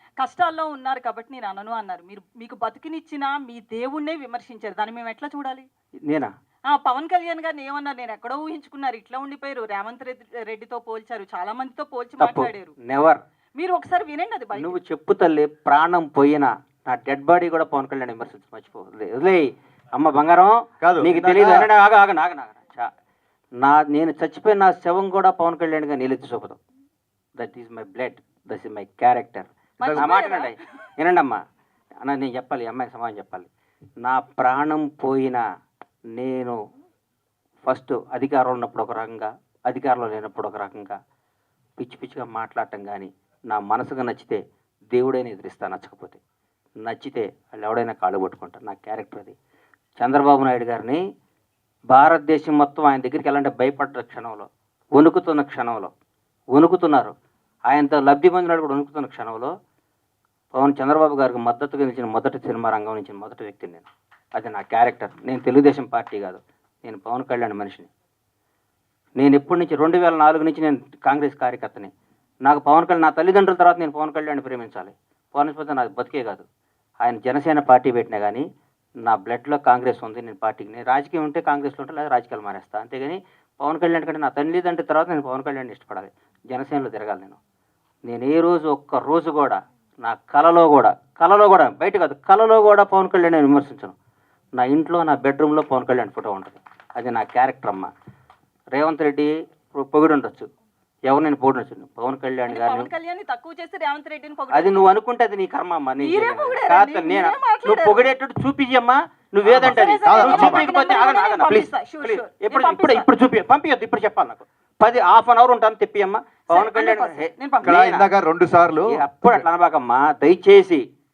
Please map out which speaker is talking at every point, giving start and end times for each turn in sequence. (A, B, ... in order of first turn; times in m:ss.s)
0:00.2-0:05.6 A
0:06.7-0:12.7 A
0:12.2-0:13.2 B
0:13.6-0:14.8 A
0:14.5-0:22.9 B
0:20.8-0:21.7 C
0:23.6-0:26.6 B
0:27.4-0:31.4 B
0:29.8-0:30.6 A
0:29.9-0:30.2 C
0:32.0-0:33.5 B
0:34.0-0:35.4 B
0:36.2-0:36.6 B
0:37.6-0:41.0 B
0:41.8-0:44.4 B
0:44.9-0:46.2 B
0:46.8-0:49.4 B
0:50.0-0:51.0 B
0:51.9-0:55.9 B
0:56.5-0:57.1 B
0:57.7-0:59.5 B
1:00.5-1:07.9 B
1:09.2-1:11.9 B
1:12.4-1:16.4 B
1:17.0-1:18.4 B
1:19.0-1:27.4 B
1:28.1-1:33.9 B
1:34.6-1:37.9 B
1:38.7-1:40.5 B
1:41.1-1:42.9 B
1:42.5-1:44.9 A
1:44.5-1:58.1 B
1:46.0-1:48.1 A
1:49.5-1:50.7 C
1:49.6-1:53.1 A
1:56.5-1:57.8 A
1:57.6-1:59.4 C
1:58.9-2:00.8 B